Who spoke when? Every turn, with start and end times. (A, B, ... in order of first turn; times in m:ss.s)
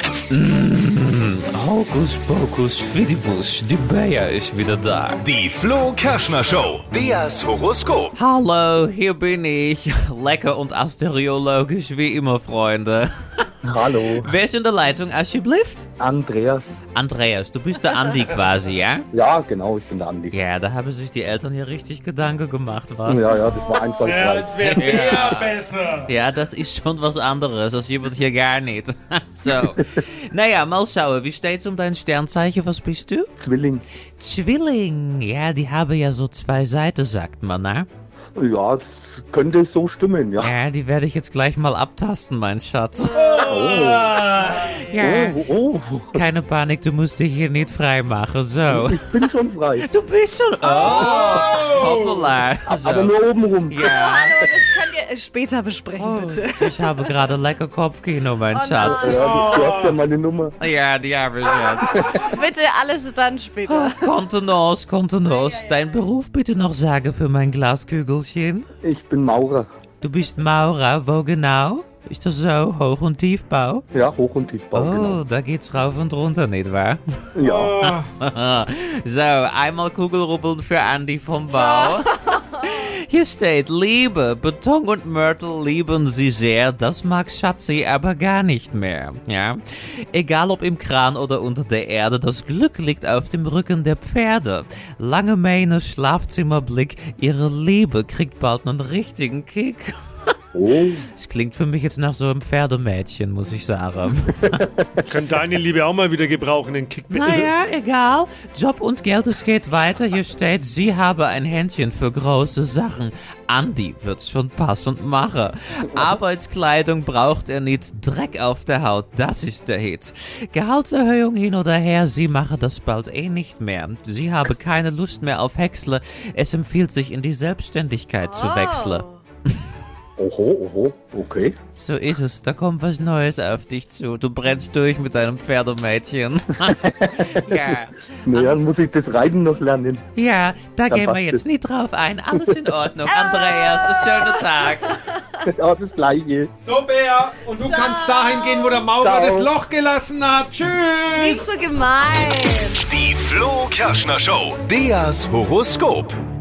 0:00.3-0:05.2 A
0:05.2-0:08.1 B
0:08.2-0:15.9 A
0:13.6-0:14.4 C
0:16.0-0:16.8 C
0:16.9-0:19.0 A
0:19.1-0:20.3 C
0:20.3-0:23.4 A
0:23.0-0:25.1 C
0:24.0-0:26.1 D
0:24.6-0:25.5 A
0:26.1-0:33.3 A
0:33.4-0:33.8 C
0:34.2-0:37.9 A
0:38.4-0:40.5 C
0:40.4-0:43.3 A
0:43.2-0:44.4 D
0:43.3-0:44.5 C
0:44.1-0:45.4 A
0:45.0-0:46.2 C
0:46.1-0:49.0 A
0:48.7-0:49.9 C
0:49.9-0:53.1 A
0:50.9-0:51.2 B
0:51.5-0:52.2 D
0:52.7-0:53.9 C
0:53.7-0:54.4 A
0:53.8-0:57.2 E
0:56.0-0:59.5 A
0:58.5-0:59.8 E
0:58.8-1:00.6 C
0:59.5-1:00.0 D
1:00.6-1:02.3 A
1:02.0-1:04.1 E
1:03.6-1:08.7 A
1:05.3-1:06.0 E
1:08.8-1:09.7 C
1:10.0-1:13.8 A
1:13.9-1:15.2 C
1:14.7-1:17.0 A
1:17.4-1:17.9 C
1:17.6-1:18.1 D
1:17.8-1:29.6 A
1:21.6-1:22.8 E
1:30.1-1:39.9 A
1:40.5-1:41.0 C
1:41.1-1:44.7 A
1:44.5-1:44.8 C
1:45.1-1:47.5 D
1:47.1-2:09.0 A
2:08.2-2:09.2 E
2:10.2-2:11.6 C
2:11.8-2:18.6 A
2:16.7-2:17.7 C
2:18.2-2:20.0 C
2:20.2-2:24.9 A
2:20.9-2:21.5 C
2:22.3-2:22.7 C
2:23.1-2:25.4 E
2:25.4-2:26.5 C
2:26.6-2:31.5 D
2:27.6-2:28.9 E
2:29.0-2:29.5 C
2:31.1-2:32.9 E
2:32.9-2:36.2 B